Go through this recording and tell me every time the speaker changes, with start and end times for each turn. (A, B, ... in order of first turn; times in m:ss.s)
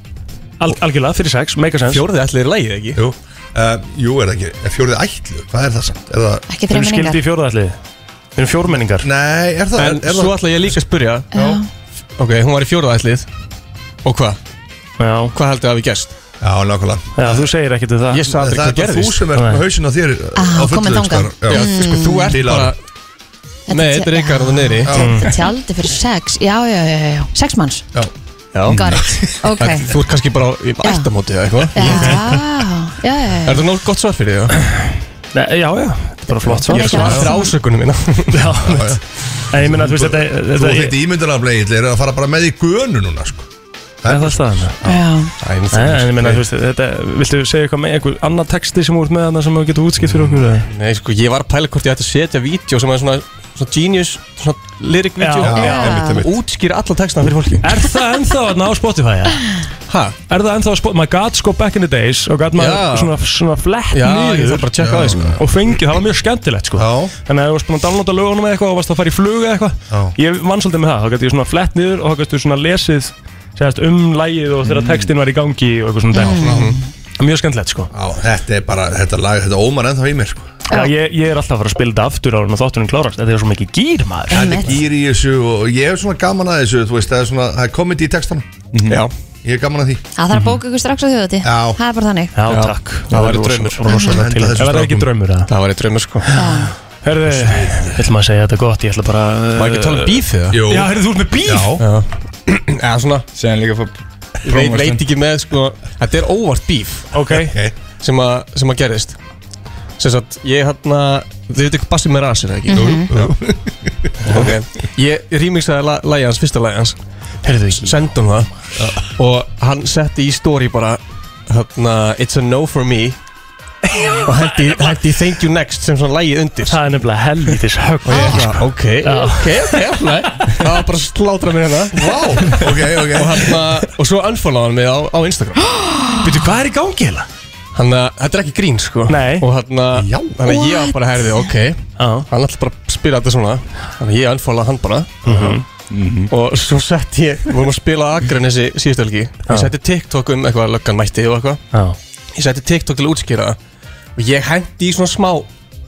0:00.6-0:02.0 A
0:01.8-0:03.0 B
0:02.9-0:06.4 C
0:06.5-0:07.2 D
0:06.7-0:07.8 A
0:08.4-0:09.1 A
0:09.0-0:10.8 C
0:09.8-0:11.3 B
0:11.3-0:11.7 D
0:11.3-0:11.6 C
0:12.2-0:13.3 B
0:14.0-0:14.4 B
0:15.0-0:15.4 A
0:15.3-0:16.1 B
0:16.4-0:17.5 C
0:17.1-0:18.3 A
0:18.1-0:19.2 B
0:18.2-0:22.7 C
0:19.3-0:19.6 A
0:20.4-0:22.4 D
0:21.5-0:22.8 B
0:23.7-0:27.8 D
0:23.7-0:24.9 B
0:24.8-0:25.2 C
0:24.9-0:25.3 A
0:28.5-0:28.9 B
0:28.6-0:29.2 C
0:28.7-0:29.9 D
0:29.5-0:32.4 B
0:30.8-0:31.1 D
0:31.7-0:33.7 D
0:31.8-0:32.4 A
0:31.8-0:32.1 C
0:33.4-0:34.6 B
0:35.3-0:37.4 A
0:36.3-0:38.5 B
0:36.7-0:37.5 D
0:38.3-0:41.0 A
0:38.6-0:43.5 C
0:44.0-0:45.0 C
0:44.0-0:44.8 A
0:44.8-0:45.3 D
0:45.4-0:46.4 B
0:45.7-0:50.7 A
0:50.0-0:57.9 B
0:55.2-0:55.9 A
0:55.4-0:56.4 C
0:55.5-0:56.2 D
0:57.6-0:59.6 A
0:59.9-1:00.2 B
1:00.3-1:17.9 A
1:02.5-1:03.1 B
1:03.9-1:05.4 B
1:04.7-1:05.4 C
1:06.8-1:07.1 C
1:09.9-1:10.2 C
1:14.7-1:15.0 C
1:16.1-1:16.8 D
1:16.4-1:16.7 C
1:17.9-1:20.5 C
1:20.7-1:24.7 A
1:24.3-1:24.8 D
1:24.3-1:30.0 C
1:30.2-1:32.3 D
1:30.3-1:30.6 A
1:31.4-1:31.8 C
1:32.3-1:35.5 A
1:32.5-1:33.9 B
1:33.8-1:34.2 D
1:33.9-1:35.1 C
1:35.5-1:36.3 B
1:36.2-1:41.8 A
1:36.3-1:36.7 D
1:37.3-1:38.0 C
1:39.6-1:40.6 B
1:40.5-1:40.9 C
1:41.4-1:41.8 C
1:41.8-1:43.2 B
1:43.3-1:45.0 E
1:44.4-1:47.1 B
1:47.1-1:47.6 A
1:47.4-1:47.7 C
1:48.0-1:49.2 B
1:50.0-1:53.2 B
1:52.7-1:53.1 D
1:52.7-1:54.5 C
1:54.2-1:57.0 B
1:57.4-1:58.0 A
1:57.5-1:58.5 B
1:59.1-2:03.2 B
2:04.0-2:04.5 A
2:04.2-2:06.8 B
2:06.7-2:09.9 A
2:07.5-2:15.7 B
2:11.9-2:13.6 C
2:16.1-2:17.3 A
2:17.7-2:25.6 B
2:19.1-2:19.5 A
2:19.9-2:20.4 C
2:20.4-2:21.5 D
2:22.0-2:22.3 A
2:25.2-2:25.6 A
2:25.9-2:26.2 E
2:26.3-2:31.6 B
2:29.5-2:29.7 A
2:31.7-2:32.0 A
2:32.3-2:33.6 B
2:34.2-2:35.5 B